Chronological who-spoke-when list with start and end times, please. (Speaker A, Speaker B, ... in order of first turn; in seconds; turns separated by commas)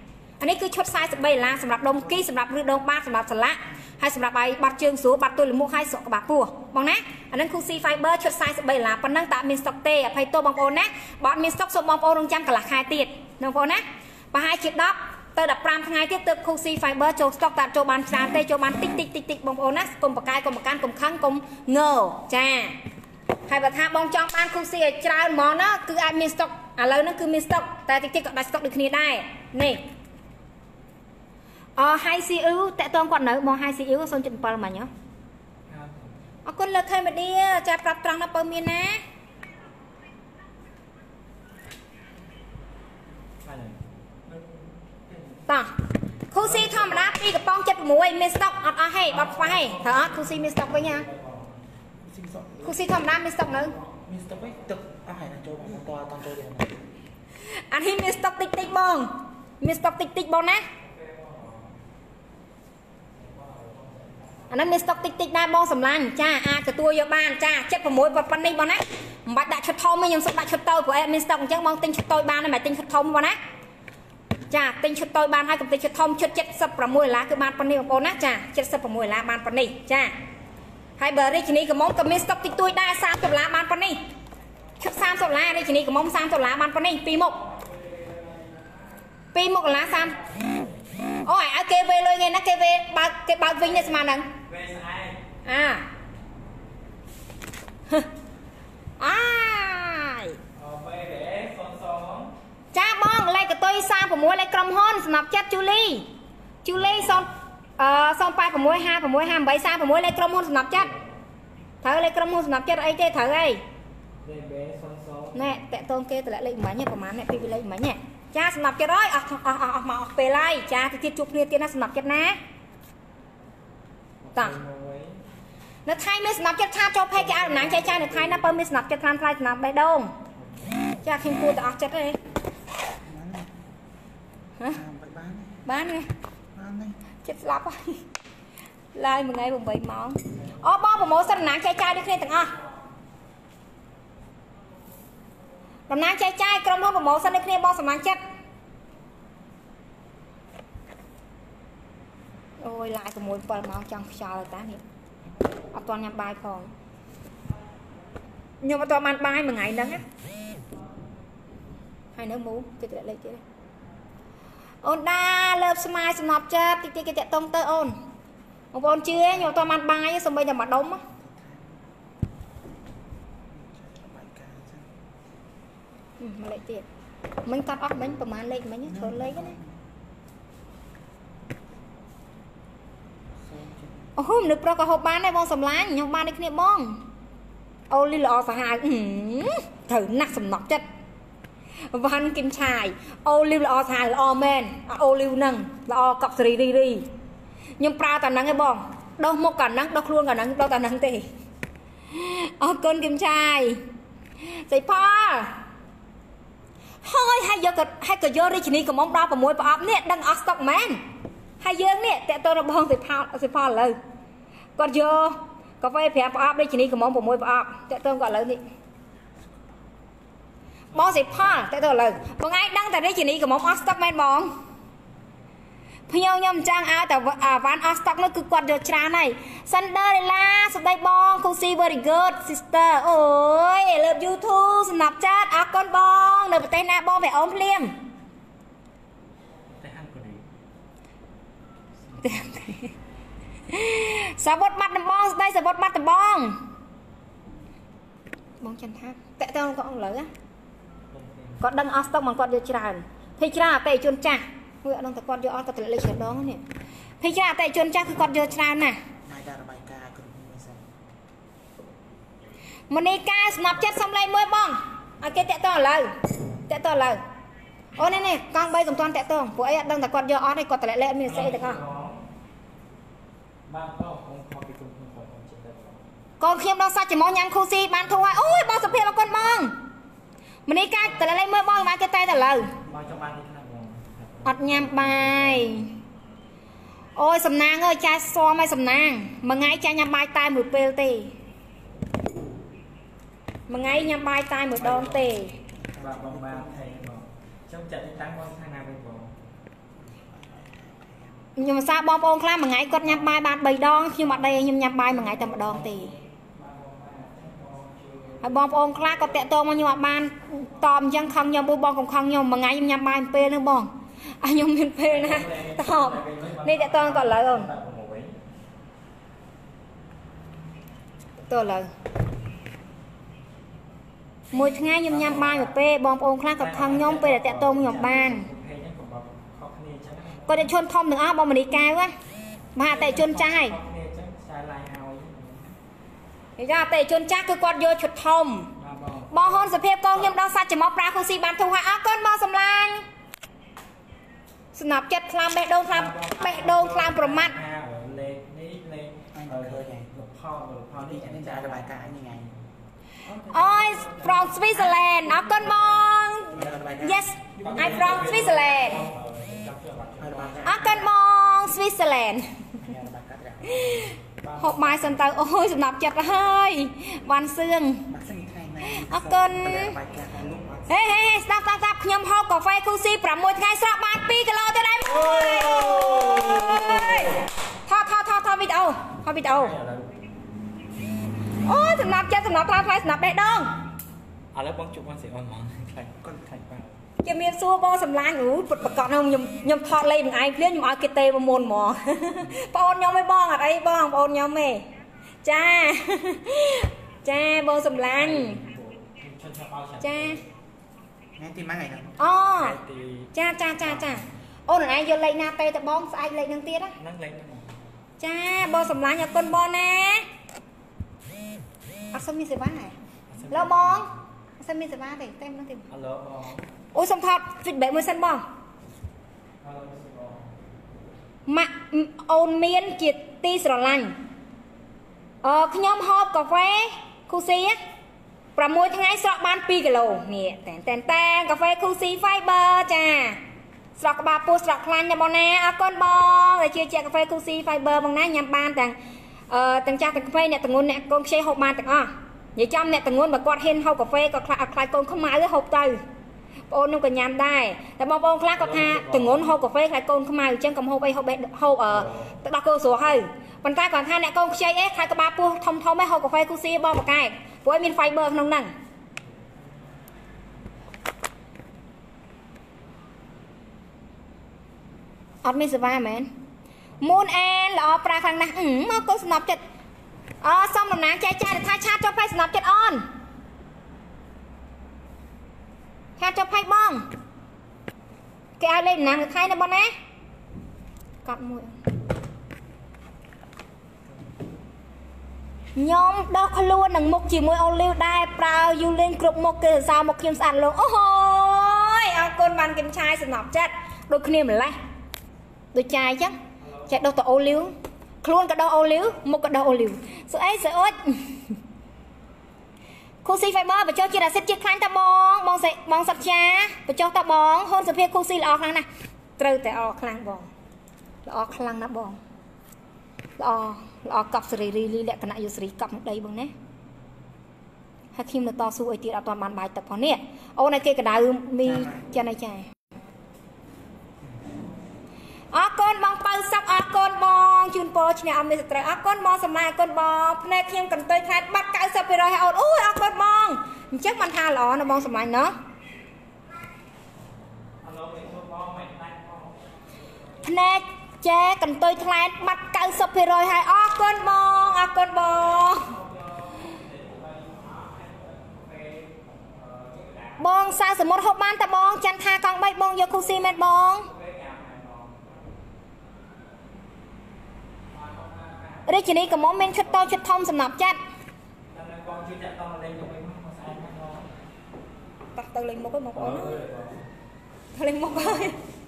Speaker A: 0.4-22.8, Speaker A: 23.5-29.8, Speaker A: 31.8-34.9, Speaker B: 35.7-36.2, Speaker A: 36.5-39.0, Speaker B: 43.4-45.4, Speaker A: 45.5-45.8, Speaker A: 46.3-51.1, Speaker B: 46.3-47.2, Speaker B: 49.1-51.5, Speaker C: 52.0-52.9, Speaker A: 52.6-53.7, Speaker C: 54.0-56.9, Speaker A: 57.7-60.6, Speaker B: 60.8-61.8, Speaker B: 63.1-64.5, Speaker A: 64.5-73.4, Speaker A: 74.5-80.1, Speaker A: 81.0-84.0, Speaker A: 84.8-87.4, Speaker A: 89.3-90.2, Speaker B: 90.4-90.7, Speaker A: 91.2-94.3, Speaker B: 94.5-95.2, Speaker A: 95.4-95.8, Speaker A: 99.0-100.4, Speaker B: 100.5-102.3, Speaker A: 102.7-106.1, Speaker A: 106.6-110.9, Speaker B: 110.9-111.2, Speaker A: 111.8-113.6, Speaker B: 114.2-115.6, Speaker A: 115.3-122.4, Speaker B: 124.2-125.2, Speaker A: 125.8-130.1, Speaker B: 127.1-128.6, Speaker A: 131.0-132.2, Speaker C: 133.1-133.5, Speaker C: 134.7-135.6, Speaker A: 135.7-136.1, Speaker C: 136.6-136.9, Speaker A: 137.2-138.0, Speaker A: 138.9-142.6, Speaker A: 145.9-148.2, Speaker A: 152.6-154.8, Speaker A: 155.7-156.7, Speaker A: 158.6-160.0, Speaker A: 162.2-163.4, Speaker A: 164.8-168.0, Speaker A: 168.7-171.0, Speaker C: 171.1-171.8, Speaker C: 173.5-174.9, Speaker A: 176.2-176.8, Speaker A: 177.4-179.6, Speaker C: 178.9-179.8, Speaker C: 183.4-184.1, Speaker A: 184.2-187.0, Speaker A: 187.9-190.8, Speaker A: 191.9-197.1, Speaker A: 197.8-201.3, Speaker A: 202.1-203.8, Speaker A: 204.4-205.6, Speaker A: 207.0-211.0, Speaker A: 211.6-214.0, Speaker A: 214.8-218.6, Speaker A: 220.9-224.5, Speaker A: 226.1-237.9, Speaker B: 239.7-240.4, Speaker A: 242.2-242.9, Speaker A: 243.7-246.6, Speaker A: 248.6-250.3, Speaker B: 251.1-251.6, Speaker A: 251.6-256.6, Speaker A: 257.2-259.0, Speaker C: 259.2-260.9, Speaker A: 262.9-266.1, Speaker A: 266.7-267.2, Speaker A: 268.0-271.8, Speaker B: 271.3-272.2, Speaker B: 273.7-276.1, Speaker A: 276.4-279.8, Speaker A: 280.7-282.7, Speaker B: 282.8-285.8, Speaker A: 284.4-285.9, Speaker A: 287.2-291.3, Speaker A: 293.7-295.6, Speaker B: 294.8-295.4, Speaker C: 295.8-296.9, Speaker B: 296.0-299.3, Speaker C: 300.0-301.3, Speaker A: 301.6-306.1, Speaker B: 303.1-303.5, Speaker B: 304.2-310.2, Speaker A: 308.4-317.7, Speaker B: 315.1-318.4, Speaker A: 321.5-321.9, Speaker A: 324.5-328.4, Speaker B: 325.1-325.7, Speaker B: 326.6-330.7, Speaker A: 330.5-332.1, Speaker A: 332.8-333.7, Speaker B: 332.8-335.8, Speaker A: 336.6-338.7, Speaker B: 338.8-339.7, Speaker A: 339.3-343.1, Speaker A: 344.7-347.6, Speaker B: 345.9-351.9, Speaker C: 349.3-350.1, Speaker C: 351.0-352.5, Speaker B: 353.3-356.9, Speaker A: 353.5-359.0, Speaker C: 356.5-357.7, Speaker B: 357.6-360.6, Speaker C: 360.2-361.1, Speaker A: 360.6-362.6, Speaker C: 362.8-364.1, Speaker A: 363.7-368.1, Speaker B: 364.4-365.2, Speaker C: 368.1-371.0, Speaker A: 368.8-369.9, Speaker A: 370.9-379.7, Speaker B: 375.1-377.4, Speaker B: 379.4-380.2, Speaker A: 381.6-383.7, Speaker B: 384.5-386.9, Speaker A: 387.2-394.9, Speaker A: 395.4-398.6, Speaker B: 398.0-400.4, Speaker A: 400.0-400.4, Speaker C: 401.4-402.1, Speaker A: 402.2-402.8, Speaker B: 402.6-404.3, Speaker A: 403.3-406.9, Speaker B: 407.0-407.8, Speaker A: 408.2-410.3, Speaker A: 412.1-412.9, Speaker B: 413.3-414.1, Speaker A: 413.5-415.9, Speaker B: 415.9-416.7, Speaker A: 416.9-418.4, Speaker B: 419.6-420.6, Speaker A: 421.5-424.1, Speaker A: 425.4-427.8, Speaker A: 428.6-433.4, Speaker A: 434.0-439.0, Speaker A: 439.5-446.0, Speaker A: 446.7-458.7, Speaker B: 448.6-449.4, Speaker B: 451.9-452.3, Speaker A: 465.4-466.3, Speaker A: 467.0-469.6, Speaker A: 470.4-473.1, Speaker A: 476.2-477.1, Speaker A: 478.6-479.9, Speaker A: 481.2-481.8, Speaker A: 485.8-494.8, Speaker A: 495.7-496.4, Speaker B: 496.6-497.0, Speaker A: 496.9-501.4, Speaker A: 503.2-508.9, Speaker A: 509.4-510.5, Speaker A: 511.3-512.2, Speaker A: 513.4-516.5, Speaker A: 518.1-522.6, Speaker C: 521.6-522.0, Speaker A: 525.5-535.5, Speaker B: 537.8-539.8, Speaker A: 540.4-546.0, Speaker B: 546.3-550.4, Speaker A: 550.4-554.1, Speaker B: 553.3-555.3, Speaker B: 557.9-559.0, Speaker A: 558.9-561.0, Speaker B: 561.7-564.3, Speaker A: 565.3-566.6, Speaker B: 566.1-567.0, Speaker A: 567.7-568.6